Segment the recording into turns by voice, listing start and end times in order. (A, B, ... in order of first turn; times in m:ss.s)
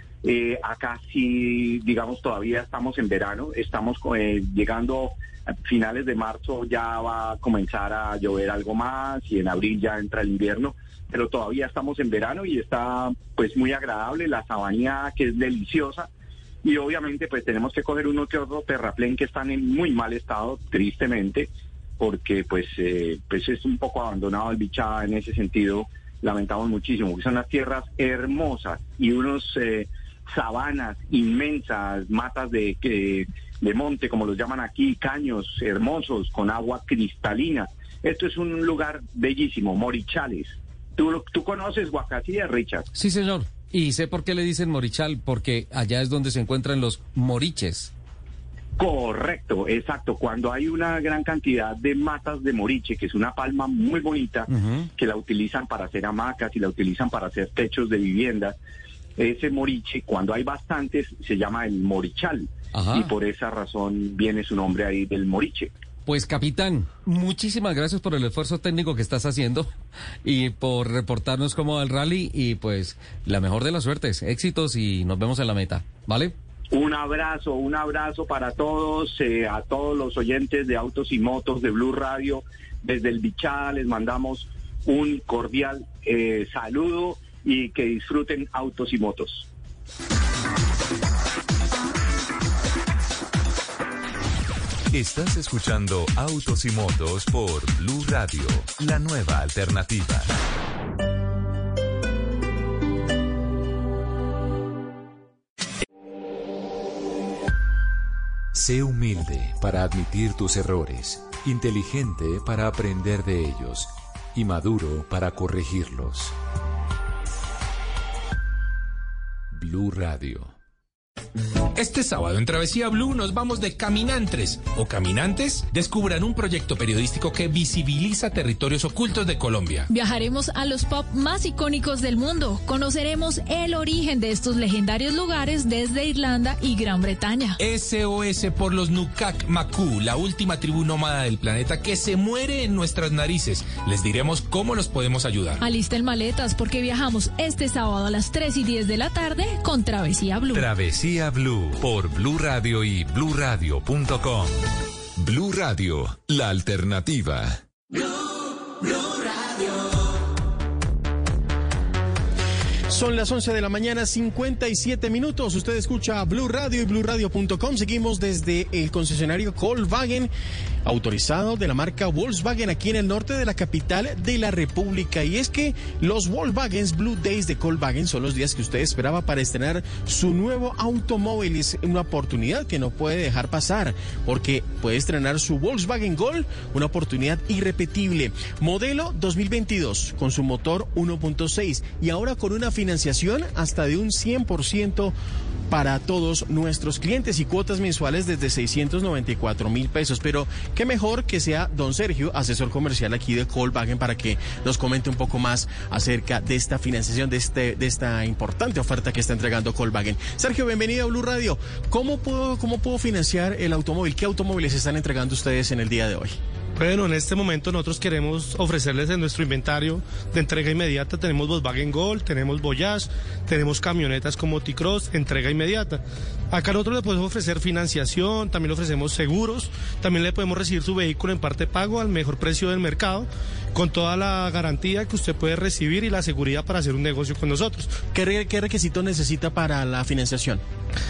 0:00.2-0:16.1 A
0:16.6-0:21.5 A
0:22.0-0:42.9 A
0:42.9-0:47.9 B
0:48.8-0:58.6 A
0:54.5-0:54.9 B
0:59.2-1:05.7 A
1:02.7-1:03.1 B
1:06.0-1:16.3 B
1:16.7-1:29.5 A
1:34.9-1:40.3 C
1:48.5-1:56.3 C
1:59.5-2:00.5 C
2:01.7-2:09.9 D
2:09.9-2:17.6 E
2:17.6-2:25.6 D
2:25.6-2:30.7 E
2:30.5-2:34.6 C
2:35.2-2:37.6 C
2:42.9-2:50.3 F
2:50.8-3:15.1 F
3:15.7-3:36.4 F
3:36.8-3:58.0 G
3:58.1-4:00.6 F